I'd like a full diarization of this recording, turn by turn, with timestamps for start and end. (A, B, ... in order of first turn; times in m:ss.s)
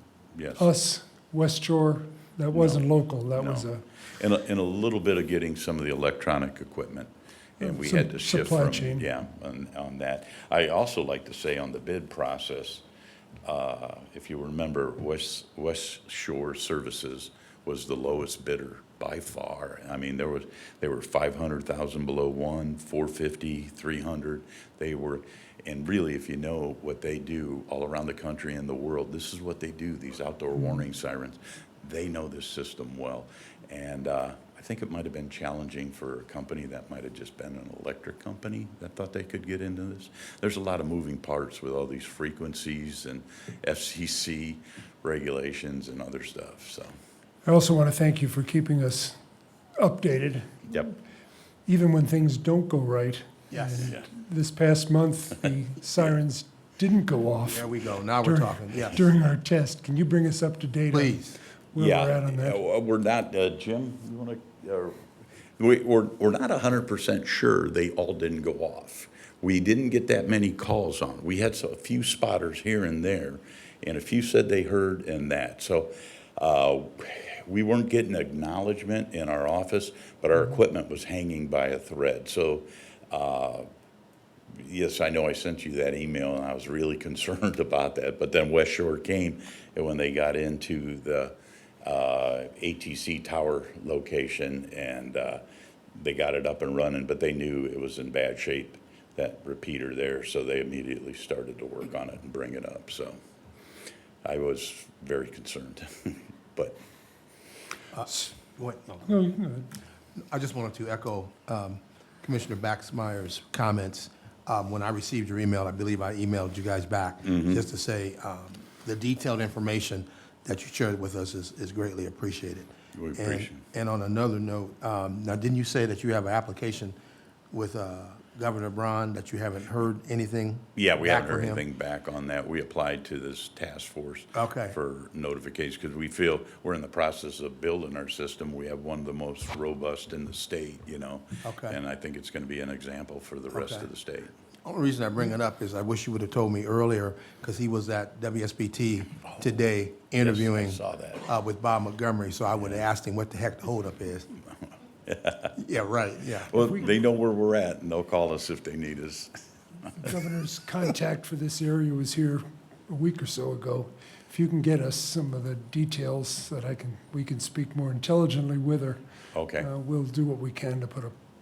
0:00.3-0:00.7 A
0:00.6-0:03.8 B
0:02.5-0:12.8 A
0:07.6-0:09.1 B
0:13.4-0:46.9 A
0:47.4-0:49.2 B
0:49.8-0:50.6 B
0:51.7-0:57.7 B
0:53.5-0:53.9 C
0:57.4-0:59.1 C
0:58.2-1:01.2 B
1:00.9-1:01.4 C
1:01.7-1:02.6 B
1:01.8-1:05.0 A
1:05.6-1:23.7 A
1:24.6-1:35.4 A
1:36.0-1:43.2 A
1:44.2-1:46.8 A
1:47.9-1:49.1 C
1:49.0-1:49.7 B
1:50.2-2:07.0 C
1:57.2-1:57.6 A
2:02.9-2:03.6 A
2:07.5-2:11.6 C
2:10.7-2:24.3 A
2:14.3-2:14.7 C
2:21.4-2:21.8 C
2:23.5-2:23.9 C
2:24.6-2:34.3 C
2:29.2-2:29.5 A
2:30.2-2:31.3 A
2:35.0-2:35.6 A
2:35.6-2:36.6 C
2:36.5-2:39.3 A
2:39.8-2:40.1 A
2:40.0-2:49.0 B
2:49.3-2:49.7 A
2:49.6-2:51.1 B